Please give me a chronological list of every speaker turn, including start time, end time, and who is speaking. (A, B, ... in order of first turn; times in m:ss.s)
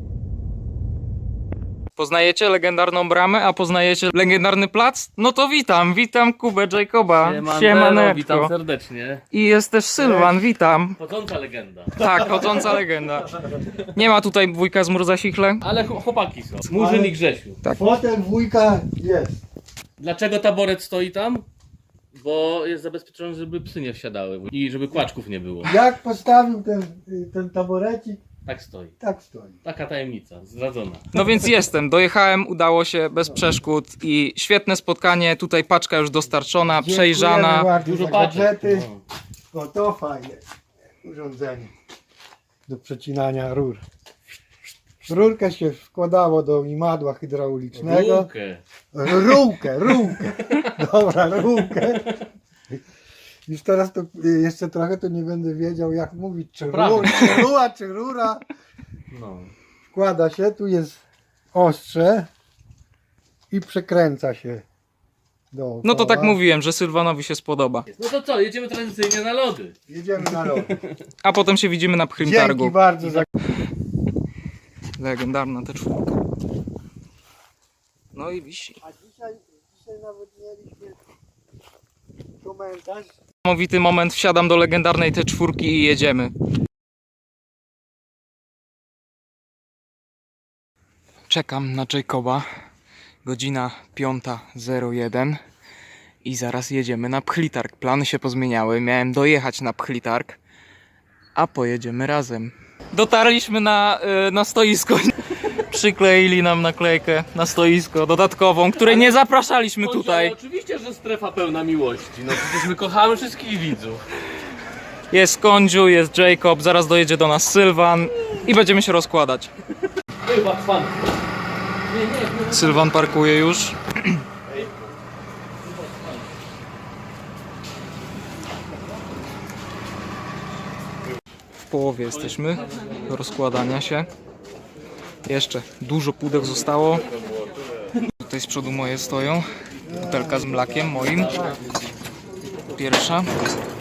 0:02.0-0:08.5 A
0:07.2-0:09.2 B
0:09.3-0:11.0 A
0:11.0-0:12.3 B
0:12.0-0:15.6 A
0:15.6-0:17.6 B
0:16.7-0:17.2 C
0:17.6-0:17.9 A
0:17.7-0:19.4 C
0:20.0-0:21.5 B
0:22.1-0:25.8 B
0:25.6-0:28.2 C
0:28.5-0:28.9 B
0:29.0-0:29.6 C
0:29.6-0:31.2 B
0:31.1-0:37.7 A
0:36.8-0:38.9 C
0:37.8-0:39.0 B
0:39.5-0:40.4 C
0:41.0-0:41.7 C
0:42.7-0:43.8 C
0:45.0-0:48.3 C
0:47.8-0:48.6 B
0:48.9-0:52.8 C
0:53.5-0:58.4 C
0:56.7-0:57.5 B
0:59.1-0:59.5 B
0:59.9-1:01.0 C
1:01.5-1:02.3 C
1:03.5-1:04.6 C
1:05.5-1:06.4 C
1:05.8-1:07.9 A
1:07.9-1:09.7 B
1:09.9-1:10.8 C
1:10.6-1:10.9 B
1:11.2-1:13.2 A
1:12.2-1:13.3 C
1:15.0-1:16.2 A
1:18.1-1:18.8 A
1:18.8-1:21.0 C
1:22.4-1:23.1 C
1:23.4-1:26.3 A
1:31.3-1:32.4 A
1:33.2-1:35.4 A
1:36.2-1:40.4 A
1:41.4-1:50.3 A
1:48.8-1:49.2 B
1:49.8-1:54.5 B
1:55.1-1:59.5 A
2:00.3-2:01.1 B
2:01.9-2:02.8 B
2:02.5-2:04.2 A
2:11.6-2:14.1 A
2:15.3-2:17.0 A
2:18.2-2:21.4 A
2:22.7-2:23.3 A